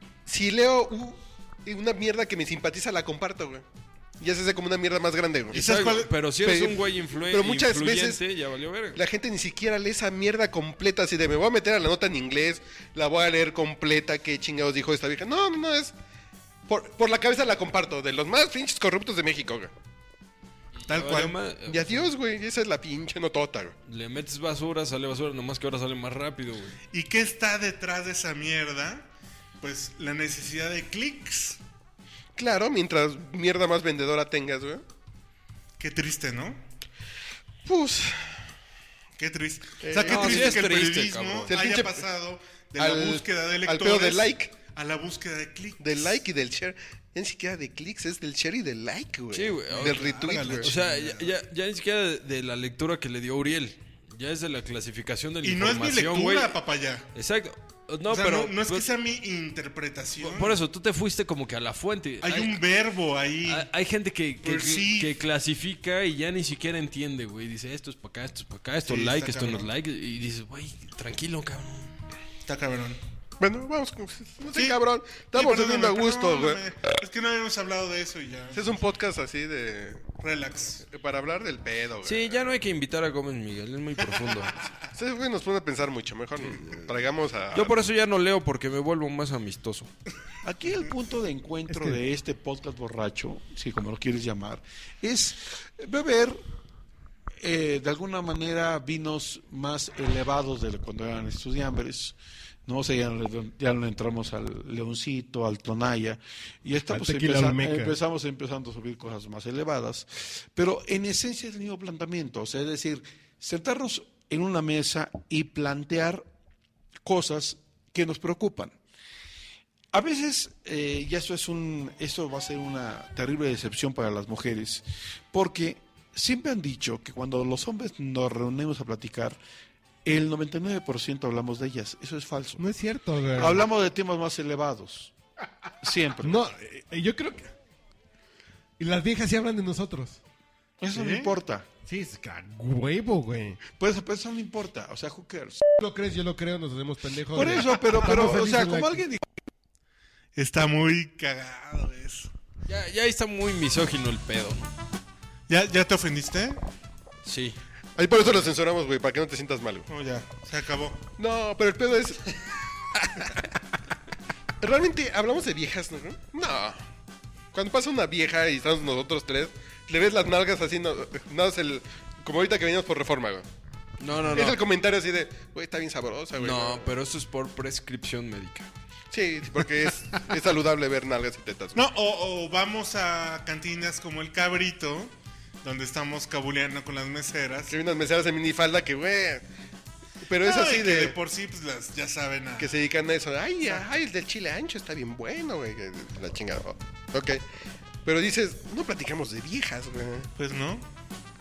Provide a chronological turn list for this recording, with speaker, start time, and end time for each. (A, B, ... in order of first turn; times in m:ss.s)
0:00.2-0:03.6 A
0:04.2-0:05.6 A
0:05.5-0:09.0 B
0:05.5-0:06.1 C
0:06.4-0:08.2 A
0:08.9-0:15.9 A
0:16.7-0:19.7 A
0:20.8-0:22.1 B
0:20.9-0:21.4 C
0:21.7-0:23.7 A
0:23.9-0:26.8 B
0:26.9-0:29.1 C
0:29.6-0:31.6 C
0:32.4-0:34.8 A
0:35.8-0:36.6 C
0:37.6-0:38.4 A
0:39.2-0:46.2 C
0:39.8-0:40.6 A
0:40.0-0:41.5 B
0:41.5-0:42.0 A
0:42.8-0:44.5 A
0:45.8-0:50.7 A
0:49.3-0:50.0 B
0:49.7-0:51.3 C
0:50.6-0:56.6 B
0:55.4-0:57.1 C
0:57.1-0:58.8 B
0:58.1-1:00.6 C
1:00.2-1:02.6 B
1:02.2-1:03.7 C
1:03.4-1:11.9 B
1:04.4-1:05.2 C
1:08.8-1:09.7 C
1:12.4-1:13.0 C
1:13.4-1:16.6 A
1:14.5-1:14.8 C
1:15.3-1:18.8 C
1:18.5-1:20.1 A
1:20.2-1:20.8 C
1:20.8-1:22.6 A
1:22.0-1:24.6 B
1:24.9-1:27.8 A
1:27.5-1:29.9 B
1:30.4-1:36.4 D
1:37.4-1:56.2 D
1:46.9-1:48.0 E
1:57.0-1:58.8 D
1:59.9-2:09.4 D
2:10.0-2:12.6 D
2:12.6-2:13.7 E
2:13.3-2:15.1 D
2:15.8-2:16.5 D
2:16.2-2:17.5 E
2:18.8-2:20.2 E
2:20.8-2:21.7 D
2:20.9-2:21.3 C
2:21.8-2:23.6 E
2:23.7-2:25.7 D
2:25.8-2:29.2 E
2:27.3-2:29.2 D
2:30.3-2:32.3 C
2:32.7-2:34.7 B
2:35.5-2:36.6 C
2:37.2-2:37.6 B
2:38.0-2:39.9 A
2:39.9-2:41.0 C
2:41.2-2:42.4 A
2:44.6-2:46.8 A
2:47.5-2:53.4 A
2:54.0-2:54.6 B
2:54.3-2:56.9 A
2:56.4-2:58.7 B
2:59.1-3:01.8 A
3:01.7-3:07.8 C
3:07.7-3:09.4 A
3:10.2-3:11.2 A
3:10.4-3:12.8 C
3:12.6-3:17.4 A
3:18.0-3:20.3 A
3:20.4-3:20.8 C